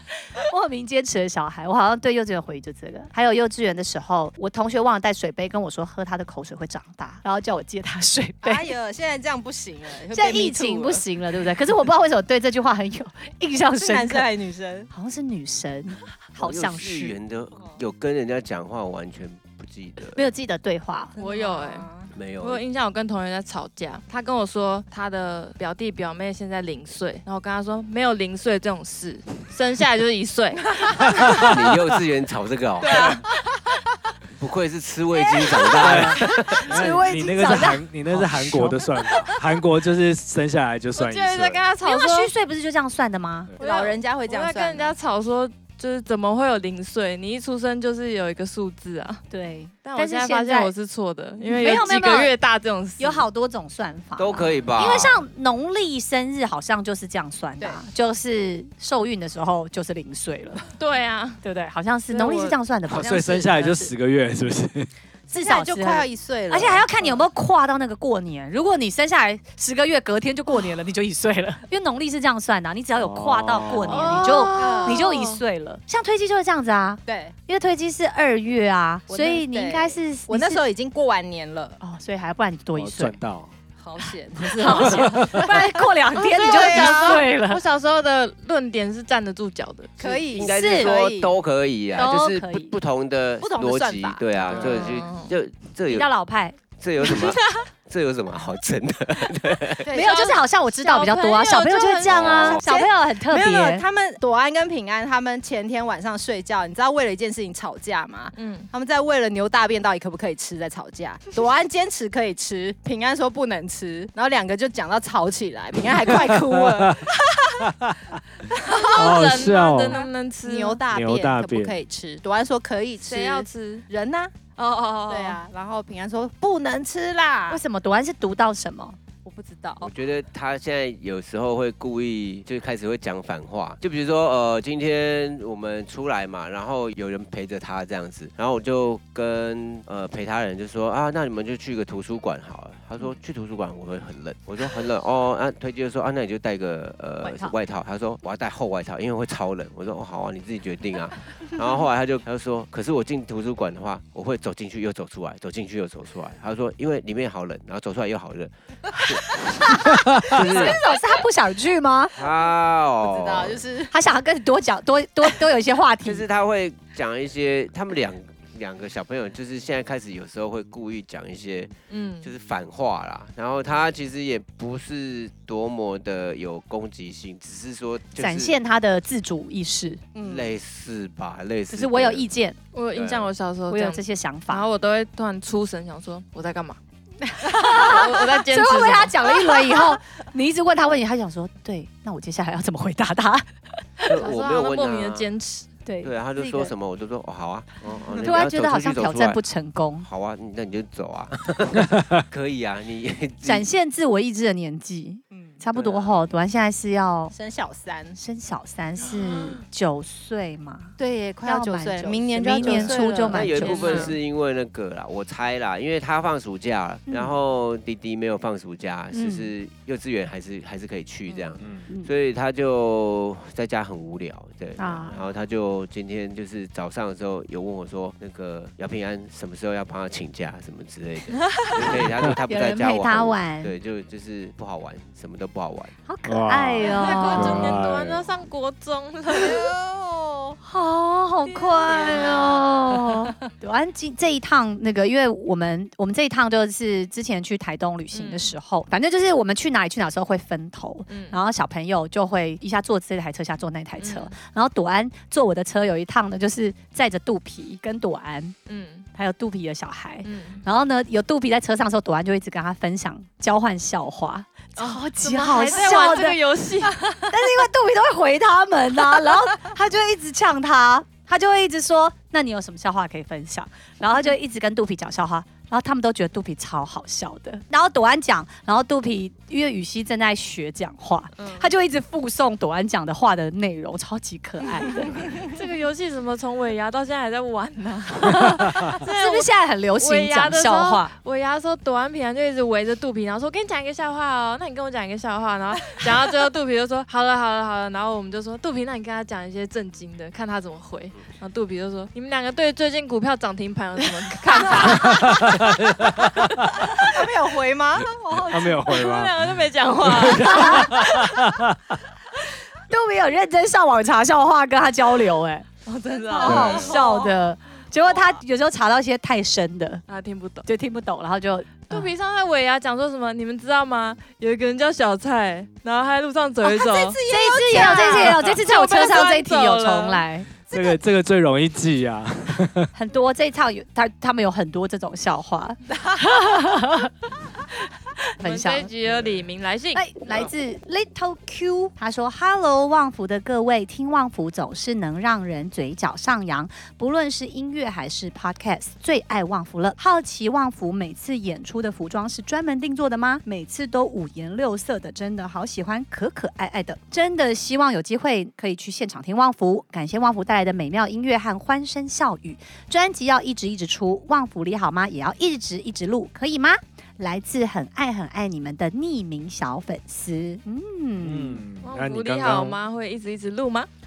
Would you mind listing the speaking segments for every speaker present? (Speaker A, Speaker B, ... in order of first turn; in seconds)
Speaker A: 0.3-8.7, 10.1-14.3, 14.9-17.1, 20.1-21.1, 36.7-38.9, 41.8-43.5, 49.3-50.7, 51.5-52.3, 53.0-60.7, 61.4-63.9, 65.3-80.6, 81.8-83.2, 84.6-87.6, 90.4-90.9, 92.0-92.8, 95.9-96.6, 99.9-103.8, 127.5-129.0, 147.2-147.5, 159.8-162.1, 163.9-166.2, 178.2-180.0, 181.7-182.6, 183.7-184.7, 187.4-193.4, 194.0-194.3, 195.8-196.7, 198.2-200.1, 203.4-207.3, 208.1-214.2, 217.1-217.3, 219.1-219.5, 224.8-225.3, 232.4-233.7, 236.1-237.6, 240.6-258.6, 259.1-266.4, 267.1-285.4, 288.2-291.1, 310.4-311.3, 312.4-315.7, 316.4-320.0, 320.6-322.1, 327.3-330.5, 332.9-337.1, 338.1-338.9, 339.9-371.6
Speaker B: 8.4-11.0, 13.8-14.9, 21.1-22.1, 35.4-37.7, 43.6-44.9, 65.3-67.2, 74.1-75.0, 77.0-77.3, 79.1-81.8, 83.8-85.6, 86.3-87.2, 90.0-91.3, 93.4-94.6, 99.8-100.3, 102.4-117.6, 118.5-118.9, 119.9-124.3, 125.1-127.6, 129.2-129.9, 160.4-160.8, 162.2-162.5, 163.0-163.9, 180.1-180.5, 197.9-198.2, 205.3-205.6, 207.3-208.2, 211.0-214.1, 236.8-237.7, 239.3-240.6, 241.8-243.1, 304.6-304.9, 306.8-309.0, 316.3-317.4, 326.6-328.4, 330.7-331.0, 336.1-336.6
Speaker C: 16.4-20.2, 22.1-22.6, 31.3-33.2, 34.4-36.7, 54.2-55.2, 90.3-96.1, 96.8-99.9, 102.1-102.6, 129.8-160.8, 162.2-163.6, 166.0-178.5, 180.2-182.3, 182.9-183.3, 194.1-195.3, 196.0-199.4, 200.0-203.7, 205.7-206.2, 212.7-235.9
Speaker D: 21.2-21.9, 22.4-31.4, 32.8-33.2, 41.0-42.3, 43.6-49.2, 49.8-53.2, 60.8-61.4, 62.1-62.5, 73.8-75.4, 86.1-90.2, 94.5-95.3, 97.2-97.5, 100.0-102.5, 108.3-108.7, 118.7-120.8, 123.0-123.9, 124.5-125.4, 171.9-172.3, 182.7-186.8, 187.6-189.2, 194.1-195.7, 212.6-212.9, 213.6-214.1, 236.8-239.6, 248.1-248.5, 251.1-251.4, 254.0-254.3, 258.7-259.1, 260.2-260.6, 264.8-267.3, 281.4-281.7, 285.4-305.7, 306.2-306.8, 308.9-311.0, 315.8-317.0, 320.1-320.7, 321.9-327.2, 327.7-330.2, 338.4-340.1, 371.8-373.9
Speaker E: 31.1-31.6, 35.8-41.7, 62.9-64.9, 73.0-74.2, 82.8-83.5, 84.6-85.5, 94.5-94.9, 116.0-117.1, 117.6-118.2, 118.9-120.0, 120.9-121.8, 160.0-160.4, 221.6-221.9, 236.3-238.3, 305.0-306.9, 308.5-309.4, 310.0-311.9, 316.4-316.9, 330.7-332.9, 371.2-372.8